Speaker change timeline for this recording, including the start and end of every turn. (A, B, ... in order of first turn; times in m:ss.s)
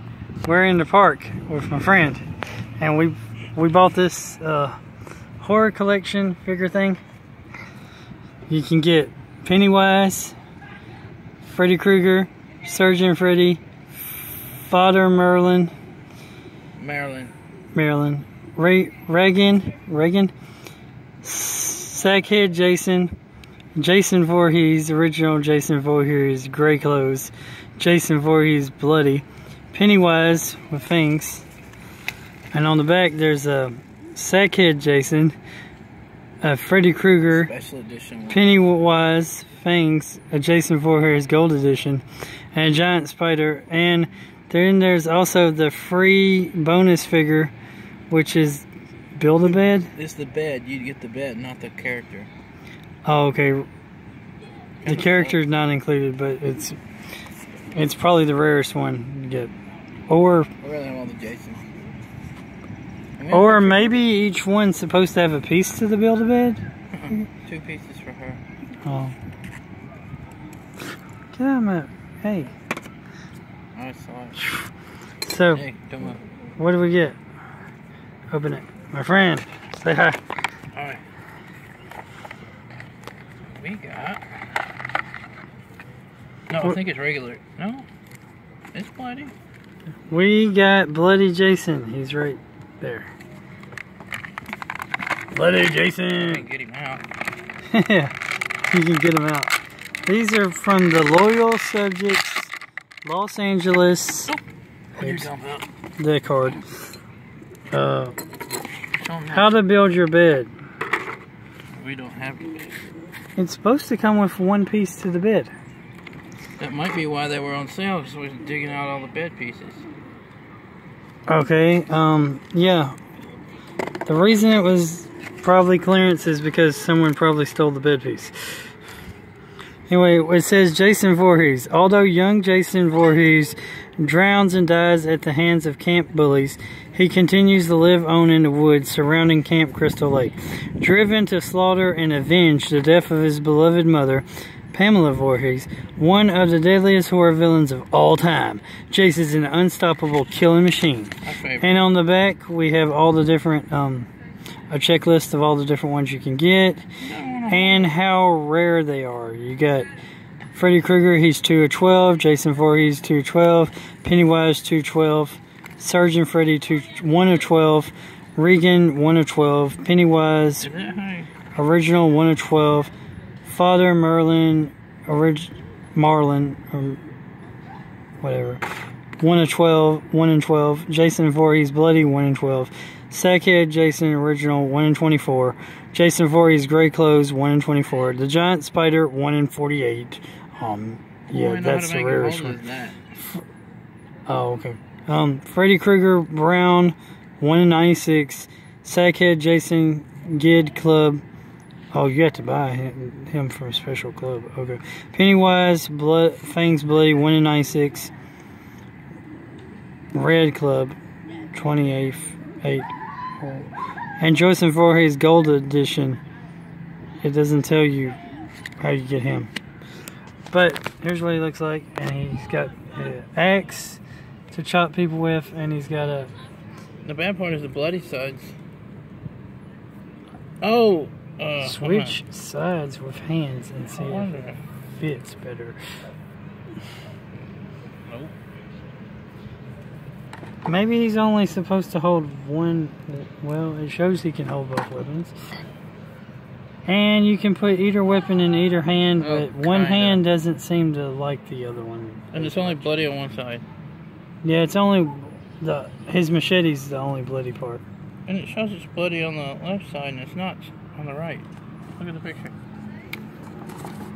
0:00.4-0:02.3 A
0:02.8-0:04.8 A
0:05.4-0:07.0 A
0:08.5-0:10.4 A
0:11.4-0:13.6 A
0:14.5-0:15.7 A
0:16.8-0:17.3 B
0:17.7-0:20.3 A
0:21.2-0:23.1 A
0:23.8-0:31.4 A
0:32.5-0:35.4 A
0:36.4-0:37.5 A
0:37.3-0:38.5 B
0:38.3-0:47.5 A
0:48.1-0:49.9 A
0:49.4-0:52.3 B
0:53.0-0:53.7 A
0:54.8-0:55.4 B
0:54.8-0:56.8 A
0:57.7-0:59.5 A
1:00.1-1:00.5 A
1:00.6-1:01.7 B
1:03.2-1:04.0 B
1:03.3-1:06.6 A
1:06.9-1:08.4 B
1:08.8-1:09.2 A
1:11.3-1:12.5 A
1:13.7-1:14.4 B
1:15.2-1:15.6 A
1:15.5-1:16.2 B
1:16.6-1:17.2 A
1:18.3-1:20.2 A
1:20.7-1:21.0 B
1:23.6-1:24.3 B
1:26.5-1:27.8 B
1:28.7-1:29.3 B
1:30.1-1:33.1 A
1:35.3-1:36.4 A
1:36.2-1:37.0 B
1:37.7-1:38.1 A
1:38.7-1:44.3 A
1:45.0-1:45.3 A
1:45.0-1:45.7 B
1:46.0-1:46.6 A
1:47.7-1:48.2 A
1:49.0-1:49.6 B
1:49.3-1:50.5 A
1:51.7-1:52.9 B
1:53.4-1:55.5 A
1:56.6-1:59.8 B
2:01.3-2:03.0 A
2:04.0-2:08.7 A
2:09.9-2:34.1 A
2:31.2-2:31.9 B
2:34.7-2:39.9 A
2:37.0-2:37.9 B
2:40.5-2:50.7 A
2:50.6-2:51.3 B
2:51.5-2:52.9 A
2:53.4-2:57.0 A
2:58.2-2:58.6 A
2:59.2-3:12.6 A
3:11.3-3:13.0 B
3:13.2-3:13.4 A
3:14.3-3:21.2 A
3:21.9-3:28.1 A
3:30.1-3:31.0 A
3:31.5-3:32.9 A
3:33.4-3:36.2 A
3:37.2-3:38.2 A
3:38.8-3:39.5 A
3:40.5-3:46.3 A
3:47.0-3:48.5 B
3:50.6-3:52.2 B
3:51.6-3:54.3 A
3:53.9-3:54.6 B
3:55.0-3:55.8 A
3:58.0-3:58.3 B
4:00.6-4:05.3 A
4:06.8-4:12.9 A
4:09.2-4:10.2 B
4:12.3-4:13.6 B
4:14.4-4:17.8 A
4:18.3-4:21.4 B
4:22.0-4:22.5 B